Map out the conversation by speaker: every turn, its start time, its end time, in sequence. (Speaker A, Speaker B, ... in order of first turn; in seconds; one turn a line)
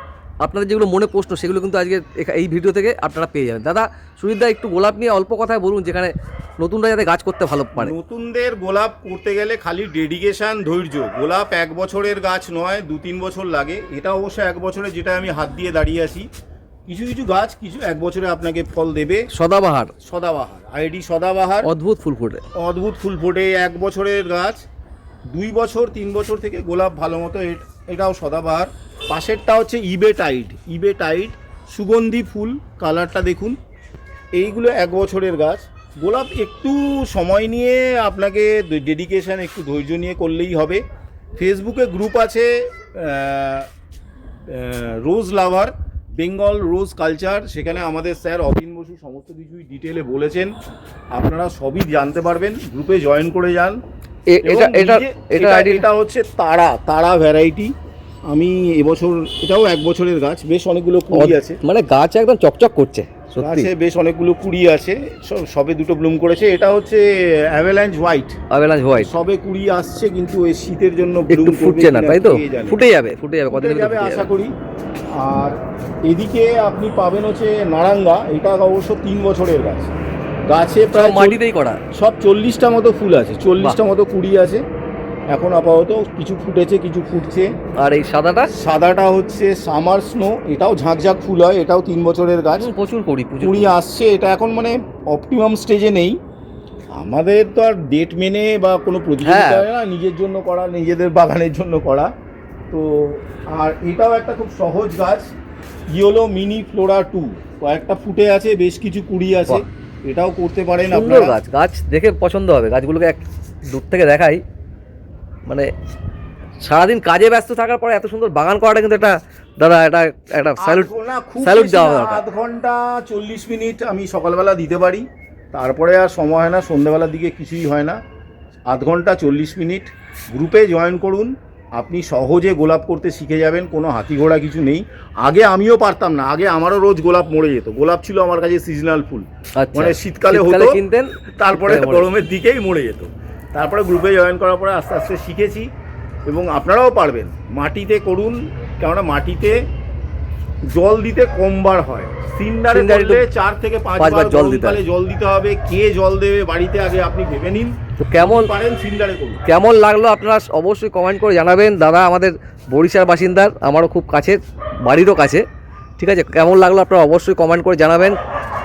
Speaker A: 0.4-7.9
Speaker B: 7.8-16.3
Speaker B: 16.9-19.3
Speaker A: 19.3-19.9
Speaker B: 20.0-21.7
Speaker A: 21.6-22.4
Speaker B: 22.6-24.6
Speaker B: 25.3-33.6
Speaker B: 34.4-40.8
Speaker B: 41.4-43.7
Speaker B: 44.5-50.5
Speaker B: 51.1-53.8
Speaker A: 54.3-55.9
Speaker B: 54.4-57.7
Speaker B: 58.3-61.6
Speaker A: 61.1-63.7
Speaker B: 63.4-68.4
Speaker A: 68.5-69.1
Speaker B: 69.0-72.8
Speaker A: 71.3-74.3
Speaker B: 73.5-74.5
Speaker B: 75.1-80.0
Speaker B: 80.5-81.4
Speaker A: 80.9-81.8
Speaker B: 81.9-84.6
Speaker B: 85.3-87.5
Speaker A: 87.8-88.5
Speaker B: 88.5-92.7
Speaker A: 92.6-93.8
Speaker B: 93.4-96.2
Speaker B: 96.9-102.1
Speaker A: 99.2-99.7
Speaker B: 102.7-105.3
Speaker B: 105.9-111.4
Speaker A: 110.9-114.4
Speaker A: 116.6-120.9
Speaker B: 120.6-128.0
Speaker A: 121.4-122.2
Speaker B: 128.7-140.8
Speaker A: 139.6-142.1
Speaker B: 141.4-145.7
Speaker B: 146.3-149.6
Speaker B: 150.7-159.4
Speaker A: 152.7-153.2
Speaker A: 154.0-154.8
Speaker A: 158.0-158.5
Speaker A: 159.4-165.4
Speaker A: 166.0-168.2